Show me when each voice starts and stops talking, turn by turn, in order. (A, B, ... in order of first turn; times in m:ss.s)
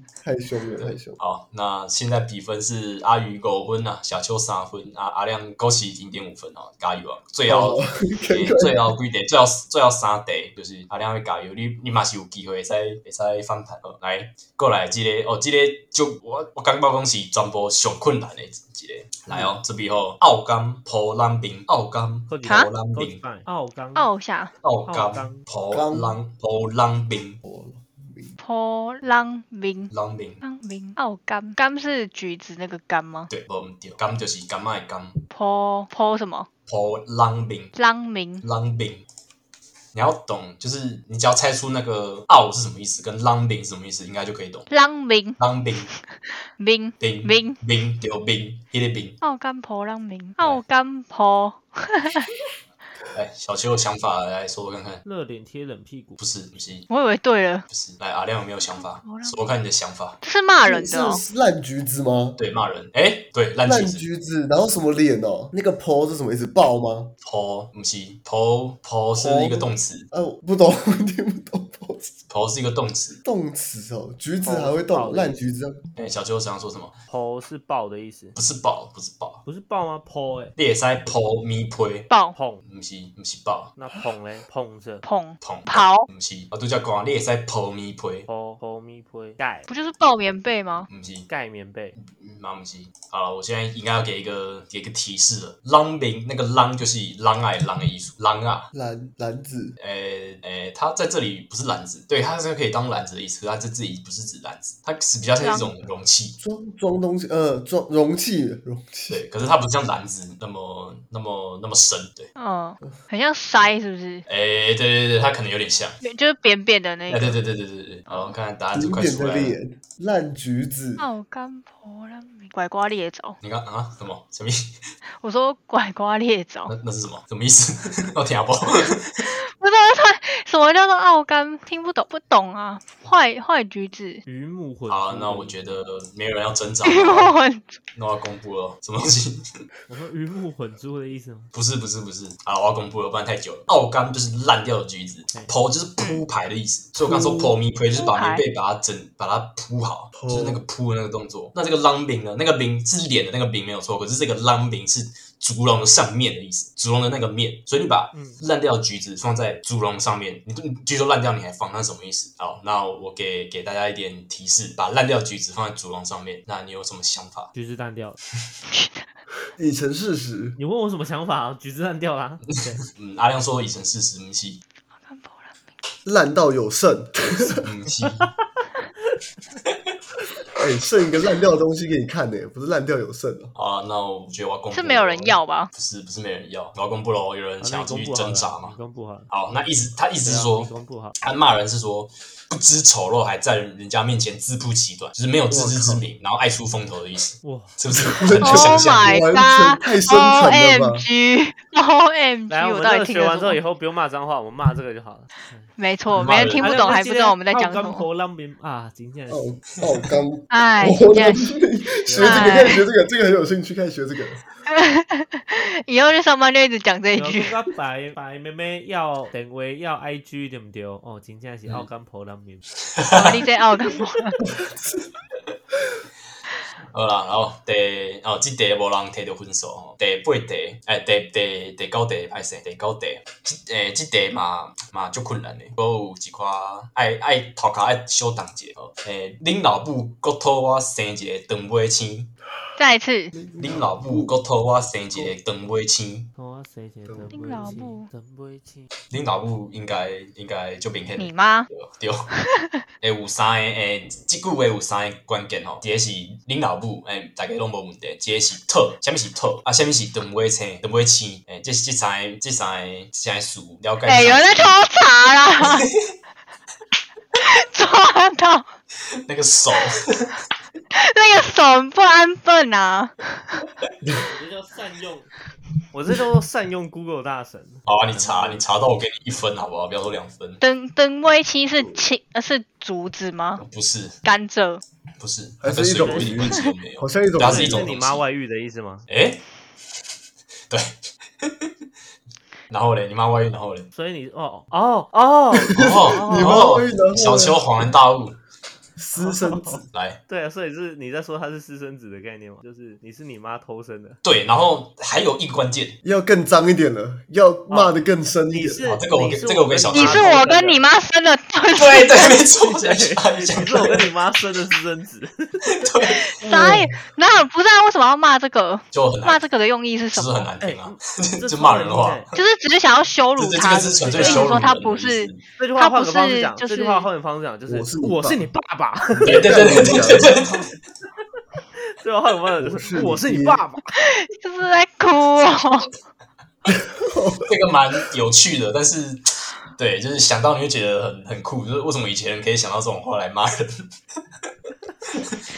0:00.2-0:01.2 A
0:00.8-0:23.2 B
0:07.4-0:08.8 A
0:22.3-0:24.1 C
0:24.0-0:24.5 D
0:24.6-0:27.4 B
0:24.9-0:25.4 C
0:25.7-0:26.2 A
0:27.4-0:28.4 A
0:28.4-0:33.3 D
0:29.9-0:30.4 B
0:33.3-0:35.2 B
0:35.3-0:36.5 D
0:36.7-0:37.7 B
0:37.7-0:38.4 D
0:38.4-0:39.0 B
0:39.9-0:44.7 B
0:44.7-0:45.4 D
0:45.4-0:45.9 B
0:46.5-0:47.6 D
0:47.0-0:49.2 B
0:49.2-0:52.3 D
0:53.1-0:55.0 B
0:55.0-0:56.2 C
0:56.2-0:56.9 B
0:56.9-0:57.6 D
0:57.7-1:00.2 B
0:58.8-0:59.4 D
1:00.2-1:01.2 D
1:00.6-1:02.4 A
1:02.4-1:04.0 B
1:03.6-1:07.1 A
1:07.2-1:10.1 B
1:09.2-1:12.1 A
1:12.3-1:13.2 B
1:13.2-1:15.8 A
1:14.4-1:15.4 C
1:16.0-1:17.0 B
1:17.1-1:18.4 C
1:18.3-1:19.4 B
1:19.4-1:20.5 C
1:20.6-1:22.1 B
1:22.1-1:22.3 D
1:22.3-1:22.6 C
1:22.6-1:23.7 B
1:23.8-1:25.0 C
1:25.0-1:26.1 D
1:25.4-1:28.3 B
1:28.3-1:29.7 C
1:29.7-1:30.9 D
1:30.9-1:31.3 B
1:31.3-1:32.0 C
1:32.0-1:38.7 B
1:38.7-1:39.7 A
1:39.8-1:46.4 B
1:45.4-1:45.7 D
1:46.4-1:49.2 A
1:49.1-1:52.3 B
1:52.4-1:54.2 D
1:54.3-1:56.0 B
1:56.0-1:57.4 D
1:57.1-1:59.6 B
1:58.7-2:01.1 A
2:01.0-2:03.4 D
2:03.4-2:04.7 B
2:05.2-2:06.7 D
2:06.7-2:09.3 B
2:09.3-2:14.2 D
2:14.2-2:15.6 C
2:14.9-2:17.3 B
2:16.8-2:17.7 D
2:18.0-2:19.5 B
2:19.9-2:21.5 C
2:21.5-2:47.5 B
2:27.0-2:27.5 A
2:27.9-2:28.4 D
2:30.1-2:30.6 A
2:38.1-2:38.4 C
2:47.5-2:48.2 C
2:49.6-2:50.6 A
2:50.6-2:52.9 C
2:52.9-2:54.6 B
2:56.0-2:57.6 A
2:57.5-2:58.3 B
3:00.6-3:03.5 A
3:03.6-3:08.8 B
3:04.7-3:05.7 D
3:07.6-3:09.3 C
3:09.3-3:19.2 B
3:10.2-3:11.1 C
3:15.5-3:16.0 A
3:17.4-3:17.7 C
3:18.1-3:21.1 A
3:18.4-3:23.6 D
3:22.5-3:25.7 C
3:25.8-3:28.0 D
3:26.1-3:26.9 B
3:26.6-3:29.5 C
3:29.3-3:34.4 A
3:30.5-3:31.6 D
3:32.0-3:32.7 C
3:32.2-3:32.8 D
3:34.6-3:37.5 D
3:37.2-3:42.6 C
3:42.9-3:43.3 B
3:43.1-3:44.4 D
3:46.9-4:02.3 B
4:02.8-4:03.3 D
4:03.3-4:04.3 A
4:03.6-4:06.3 B
4:06.4-4:08.9 C
4:07.3-4:08.1 D
4:09.1-4:12.3 B
4:11.2-4:11.7 D
4:12.4-4:12.8 D
4:13.0-4:24.8 B
4:24.0-4:25.9 D
4:25.6-4:25.9 B
4:27.3-4:28.7 D
4:29.2-4:30.4 B
4:30.9-4:33.5 D
4:34.2-4:35.3 C
4:35.9-4:38.7 C
4:37.9-4:40.6 B
4:40.6-4:43.6 D
4:43.6-4:44.2 B
4:44.2-4:44.8 D
4:45.2-4:48.2 B
4:45.6-4:47.9 A
4:46.0-4:46.4 C
4:47.4-4:49.1 C
4:49.1-4:49.4 B
4:50.7-4:51.7 B
4:52.7-4:53.9 B
4:53.9-4:56.7 C
4:55.6-4:57.9 A
4:55.7-4:58.4 B
4:59.0-4:59.8 A
4:59.2-5:04.2 C
4:59.9-5:00.2 B
5:04.2-5:06.0 B
5:06.0-5:08.9 A
5:07.7-5:08.0 C
5:08.5-5:10.8 C
5:08.9-5:10.4 B
5:09.9-5:12.4 D
5:11.7-5:14.1 B
5:12.5-5:15.9 C
5:15.7-5:16.3 B
5:16.1-5:20.5 D
5:16.4-5:16.9 A
5:18.9-5:19.4 B
5:20.1-5:22.4 B
5:20.6-5:22.3 C
5:22.3-5:27.1 D
5:23.4-5:25.4 B
5:24.0-5:24.5 C
5:25.6-5:30.2 C
5:27.7-5:28.4 A
5:29.1-5:30.5 A
5:29.2-5:30.6 B
5:31.9-5:33.8 C
5:32.6-5:33.6 A
5:34.0-5:35.9 D
5:36.7-5:37.5 A
5:37.4-5:39.3 B
5:39.8-5:43.7 B